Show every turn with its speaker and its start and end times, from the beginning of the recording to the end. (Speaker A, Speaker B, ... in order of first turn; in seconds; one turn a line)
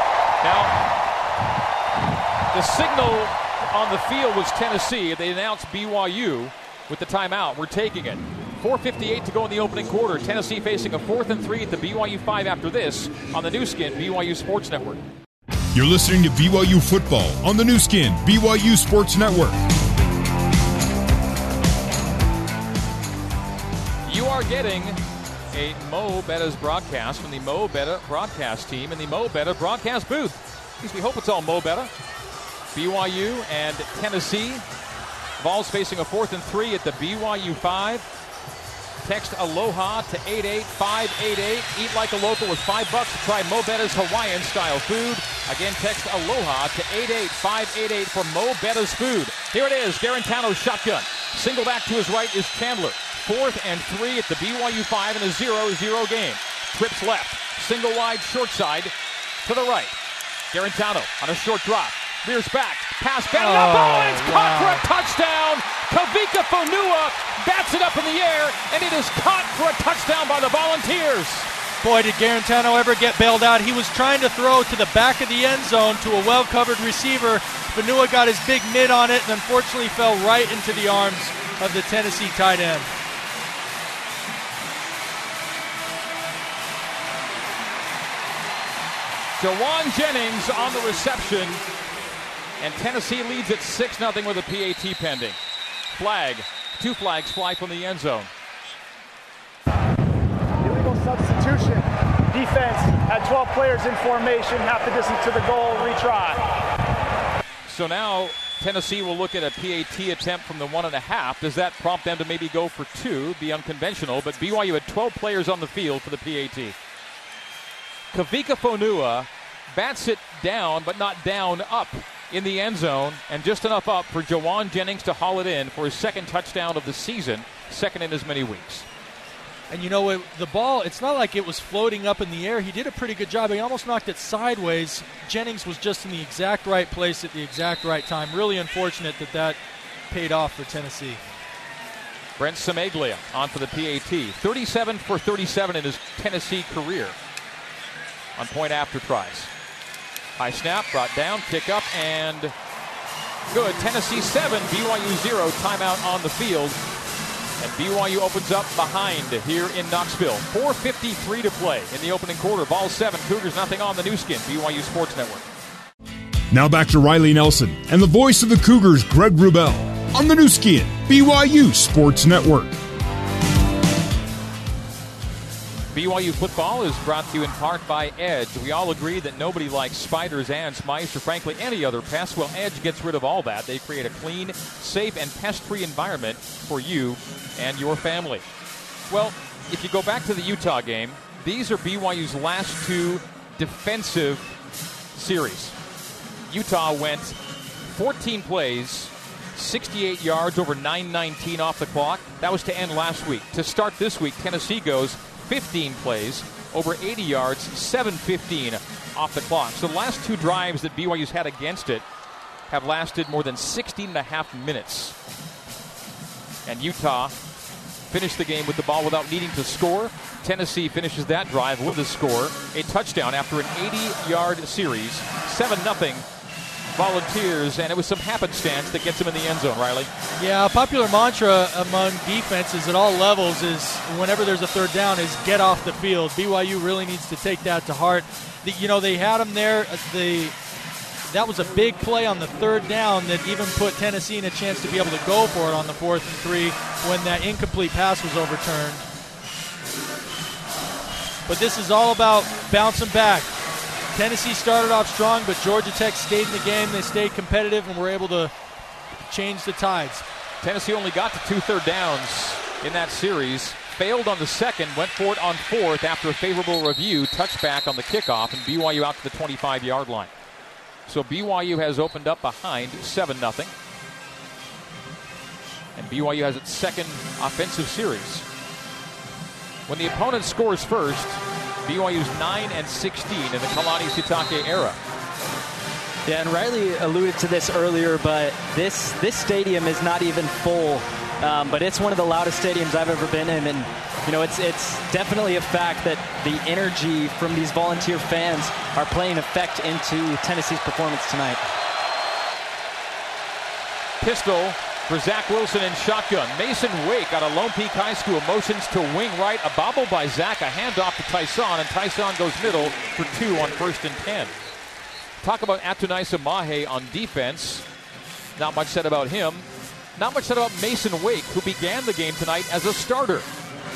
Speaker A: 0.4-0.7
Speaker A: 2.5-15.0
Speaker B: 15.7-19.6
Speaker A: 24.1-25.0
Speaker A: 25.5-31.9
Speaker A: 32.7-34.6
Speaker A: 35.4-38.1
Speaker A: 39.0-58.9
Speaker A: 59.4-60.0
Speaker A: 60.5-71.5
Speaker C: 63.3-64.8
Speaker C: 71.8-82.9
Speaker A: 89.4-91.6
Speaker A: 92.6-95.4
Speaker A: 95.9-98.3
Speaker D: 100.6-106.4
Speaker A: 107.7-116.7
Speaker A: 118.1-128.9
Speaker C: 129.7-139.6
Speaker C: 140.1-141.2
Speaker A: 142.4-147.2
Speaker A: 148.4-149.5
Speaker A: 150.4-152.5
Speaker A: 153.5-156.8
Speaker A: 157.6-165.5
Speaker B: 166.5-172.8
Speaker A: 175.9-188.4
Speaker A: 189.1-194.5
Speaker A: 195.1-195.8
Speaker A: 196.5-212.0
Speaker A: 212.7-215.1
Speaker A: 216.7-217.3
Speaker A: 218.1-226.2
Speaker A: 226.9-230.1
Speaker C: 230.4-240.5
Speaker C: 241.3-249.0
Speaker C: 251.5-253.5
Speaker C: 254.1-258.5
Speaker C: 259.2-260.2
Speaker A: 260.6-270.3
Speaker A: 271.1-273.7
Speaker A: 275.9-278.4
Speaker A: 279.9-285.0
Speaker E: 286.2-301.7
Speaker A: 304.2-314.5
Speaker A: 315.4-317.8
Speaker A: 318.6-323.5